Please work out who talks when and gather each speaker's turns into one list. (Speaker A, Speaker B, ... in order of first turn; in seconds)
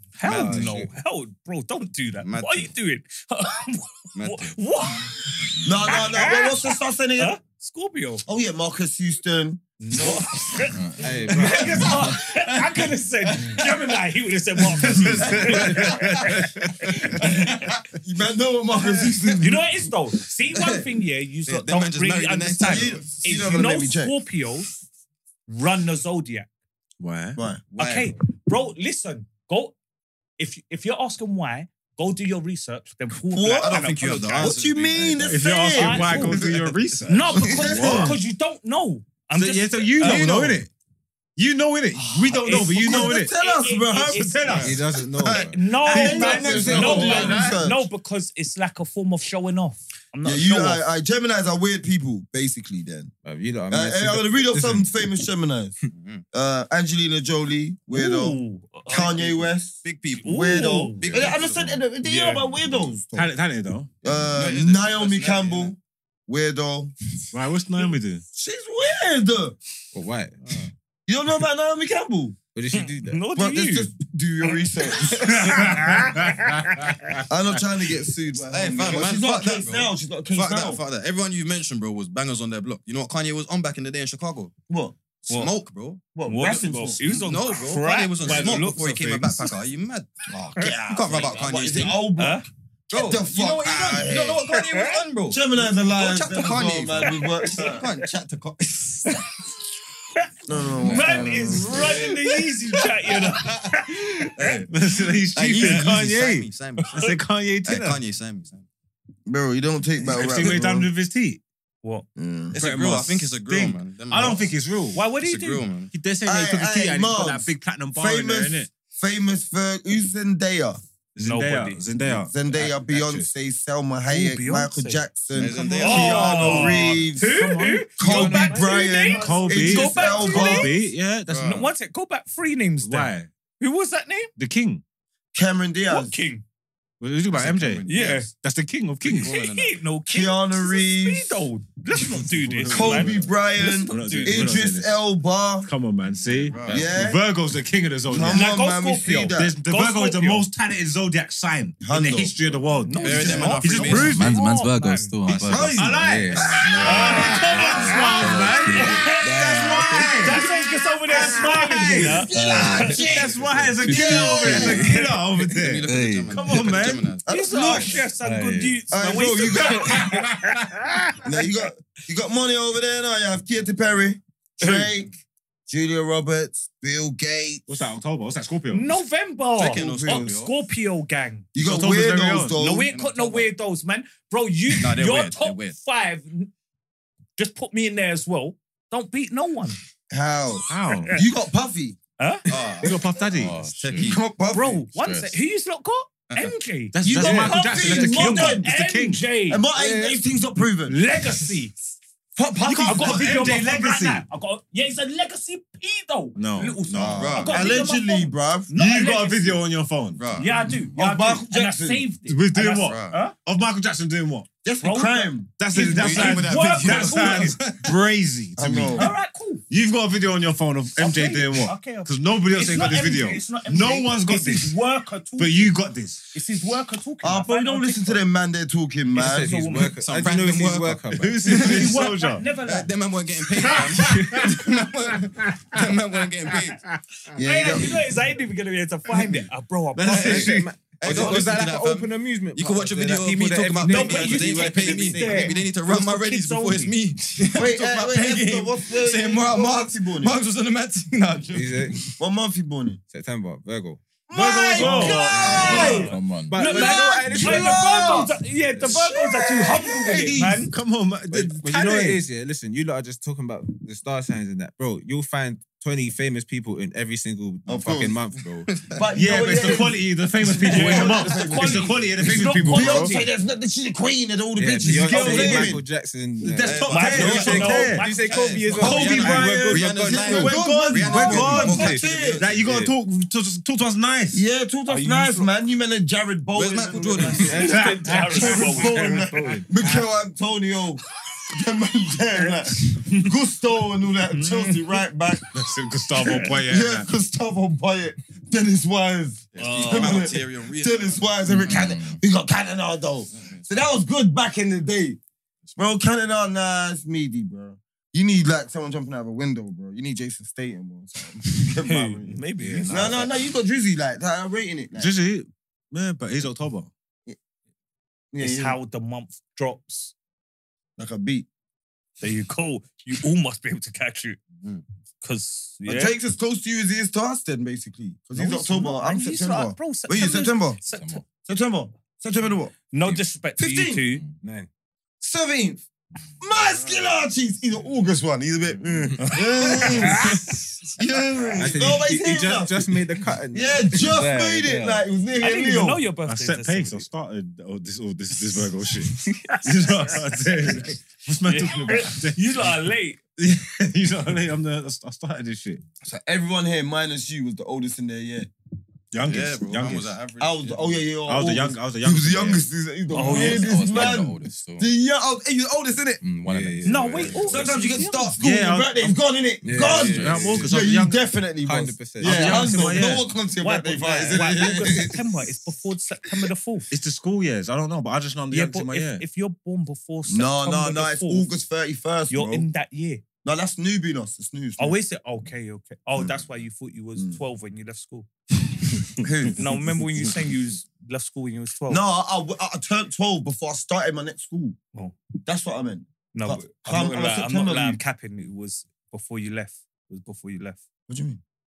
Speaker A: 0.2-8.2, 9.8-10.7, 11.3-17.7, 19.4-24.8, 25.5-26.5, 27.8-29.8, 30.4-34.6, 35.7-36.4, 37.1-40.3, 42.3-50.8, 57.9-59.4, 60.2-61.1, 62.0-62.4, 72.7-73.9, 74.4-77.2, 86.2-89.5, 90.6-91.5, 92.2-92.5, 94.5-94.9, 97.1-97.8, 100.8-104.5, 114.9-115.7, 121.2-121.8, 124.1-125.0, 125.6-130.7, 131.4-134.3, 135.9-136.4, 137.9-138.3, 139.1-144.6, 148.3-150.4, 152.8-155.2, 156.8-159.4, 160.2-163.1, 164.5-165.2, 167.3-171.1, 178.7-181.5, 182.6-186.5, 187.4-189.8, 192.2-192.5, 194.5-199.7, 200.9-201.7, 202.8-209.6, 210.4-213.3, 214.8-217.6, 218.9-219.6, 221.0-225.7, 226.3-228.2, 229.2-230.0, 231.5-232.9, 237.4-240.5, 243.8-246.9, 254.8-260.7, 270.6-273.3, 276.9-279.0, 284.9-285.5, 287.5-289.5, 293.0-293.3, 294.3-294.9, 296.2-296.5, 299.6-300.4, 311.8-313.3, 318.4-320.1, 322.2-324.4, 325.2-326.1, 328.3-331.2, 332.9-334.2, 339.2-340.5, 345.4-347.1, 349.2-350.2, 351.4-353.2, 363.1-363.7, 366.9-368.3, 373.6-376.9, 378.5-381.5, 382.3-383.2, 384.8-388.3, 389.6-392.0, 396.3-400.8
Speaker B: 0.2-0.7, 2.2-2.7, 4.2-4.6, 15.2-16.4, 17.2-17.8, 18.8-19.4, 20.5-20.9, 21.5-23.1, 27.7-28.1, 33.6-35.4, 36.2-36.8, 40.0-40.6, 55.9-56.2, 59.8-60.4, 61.0-61.8, 64.3-65.8, 70.4-70.7, 78.5-84.5, 85.3-86.0, 87.0-90.1, 90.9-92.0, 92.9-99.2, 103.4-103.7, 104.4-104.7, 105.3-108.7, 112.5-114.5, 115.2-115.9, 125.3-127.1, 131.3-131.7, 137.3-138.3, 139.0-139.8, 146.2-146.9, 153.0-154.3, 155.3-155.9, 156.9-157.7, 165.4-168.0, 179.6-180.6, 182.9-183.5, 184.8-185.8, 192.5-194.2, 207.0-207.7, 210.2-210.5, 212.7-213.2, 215.7-218.0, 230.0-232.1, 232.7-236.8, 241.0-252.1, 268.7-269.0, 276.4-282.5, 286.5-287.8, 299.5-301.3, 303.3-303.7, 305.6-305.9, 359.2-361.0
Speaker C: 0.3-0.9, 11.0-12.0, 44.6-47.0, 53.2-54.9, 69.9-70.3, 72.5-73.2, 229.2-231.5, 240.1-245.6, 251.5-252.0, 253.1-254.2, 254.8-259.0, 261.3-268.7, 274.6-279.7, 281.6-282.9, 287.5-287.8, 288.9-289.3, 334.4-334.7, 341.6-344.2, 366.4-367.6, 369.6-370.8, 371.6-372.9
Speaker D: 5.6-7.3, 8.3-10.1, 17.2-19.7, 22.6-24.2, 27.4-27.6, 33.2-33.8, 34.4-36.5, 37.4-38.2, 42.4-47.9, 50.2-53.1, 53.7-55.8, 56.3-63.3, 64.0-65.8, 66.3-66.9, 68.3-69.6, 71.1-72.4, 73.3-76.1, 77.3-80.8, 84.7-85.0, 86.2-87.0, 90.3-94.5, 95.3-97.9, 100.5-102.0, 109.3-110.9, 112.2-112.6, 116.2-120.8, 122.0-127.4, 128.0-130.7, 135.3-136.2, 140.1-141.4, 142.7-145.7, 146.7-147.2, 148.1-149.6, 151.8-152.3, 153.2-153.6, 155.3-158.4, 159.2-160.4, 162.0-163.3, 163.8-164.9, 167.2-168.0, 168.9-170.2, 171.2-175.1, 175.7-177.7, 179.6-180.3, 181.5-182.9, 190.1-192.0, 194.0-194.8, 197.0-198.7, 199.5-201.0, 202.4-203.4, 207.0-208.7, 210.7-212.1, 214.6-215.5, 218.6-219.1, 227.2-229.5, 237.3-238.0, 247.6-250.4, 252.2-253.0, 254.3-256.1, 256.6-260.4, 267.7-268.2, 269.0-272.0, 272.6-275.8, 278.8-282.4, 284.3-295.5, 296.7-305.2, 305.8-312.4, 312.9-315.1, 318.3-318.8, 321.0-321.5, 325.9-330.8, 331.5-332.7, 333.6-334.0, 335.2-335.9, 336.4-340.3, 341.0-342.8, 343.5-346.0, 356.0-358.5, 360.4-366.2, 367.5-375.3, 380.3-382.7, 383.4-385.0, 389.2-390.4, 391.9-394.8, 395.4-398.0, 401.1-401.4
Speaker E: 10.8-11.9, 153.9-159.2, 162.3-165.0, 165.9-166.6, 168.2-168.8, 193.3-194.2, 194.9-195.4, 255.3-256.7, 257.2-257.5, 301.5-302.2, 330.9-331.2, 343.9-345.1, 363.2-364.9, 366.2-367.8, 369.7-370.6
Speaker F: 14.9-16.1, 27.0-27.4, 35.3-38.2, 39.4-40.7, 41.4-43.3, 44.2-45.0, 45.8-47.6, 63.1-63.9, 67.3-68.2, 75.5-76.5, 104.7-108.0, 110.1-111.4, 112.5-115.0, 115.9-118.7, 121.2-123.3, 127.2-131.6, 132.8-133.3, 134.4-134.8, 137.0-139.3, 142.0-145.0, 145.7-148.5, 149.3-154.4, 155.8-160.5, 161.1-167.1, 169.8-170.6, 177.7-179.0, 181.6-182.6, 190.7-191.2, 192.8-193.6, 196.9-199.2, 202.6-204.2, 206.4-207.7, 208.7-210.3, 212.3-214.5, 215.6-219.2, 219.7-224.8, 225.4-226.2, 231.1-232.4, 233.7-234.8, 240.0-241.4, 254.3-256.0, 260.0-262.2, 269.1-273.1, 274.8-275.8, 276.4-278.1, 278.7-284.4, 287.5-290.0, 295.5-297.1, 312.6-313.3, 315.0-316.9, 346.3-352.7, 353.4-355.8, 359.1-360.2, 361.3-362.6, 368.4-369.1, 370.1-371.2, 372.2-373.3, 376.9-379.2